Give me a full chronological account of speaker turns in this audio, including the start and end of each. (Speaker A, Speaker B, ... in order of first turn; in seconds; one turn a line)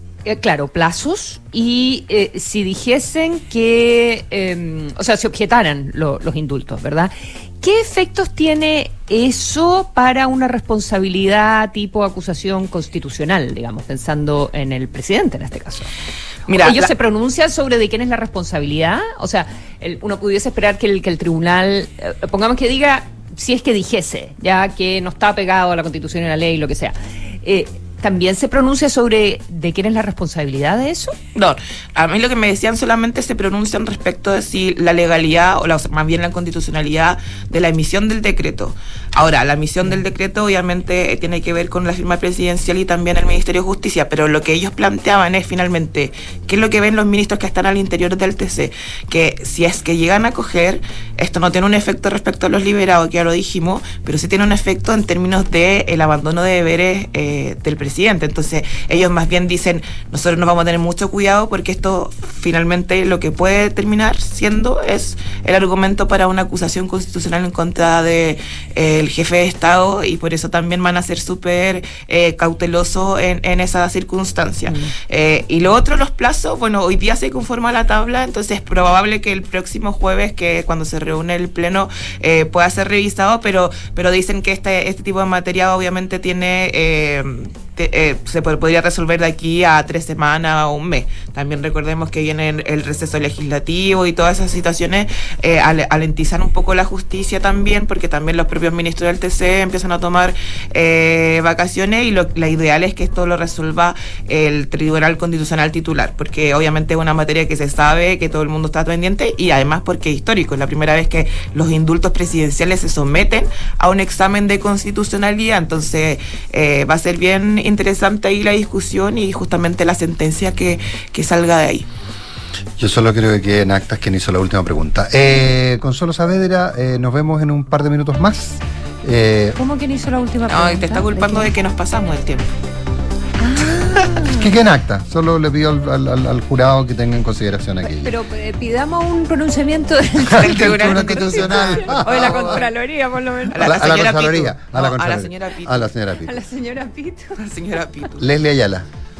Speaker A: 0.2-15.9
Speaker B: 16.5-16.9
Speaker A: 16.5-31.1
Speaker B: 31.3-121.9
Speaker A: 74.7-74.9
Speaker C: 122.8-129.6
Speaker A: 129.6-131.5
Speaker B: 130.5-132.4
Speaker A: 133.4-134.5
Speaker C: 134.2-138.1
Speaker A: 137.8-144.1
Speaker C: 140.3-142.6
Speaker B: 140.3-142.7
Speaker B: 143.5-145.9
Speaker C: 143.6-146.4
Speaker A: 146.2-147.4
Speaker B: 147.4-148.2
Speaker C: 148.2-148.9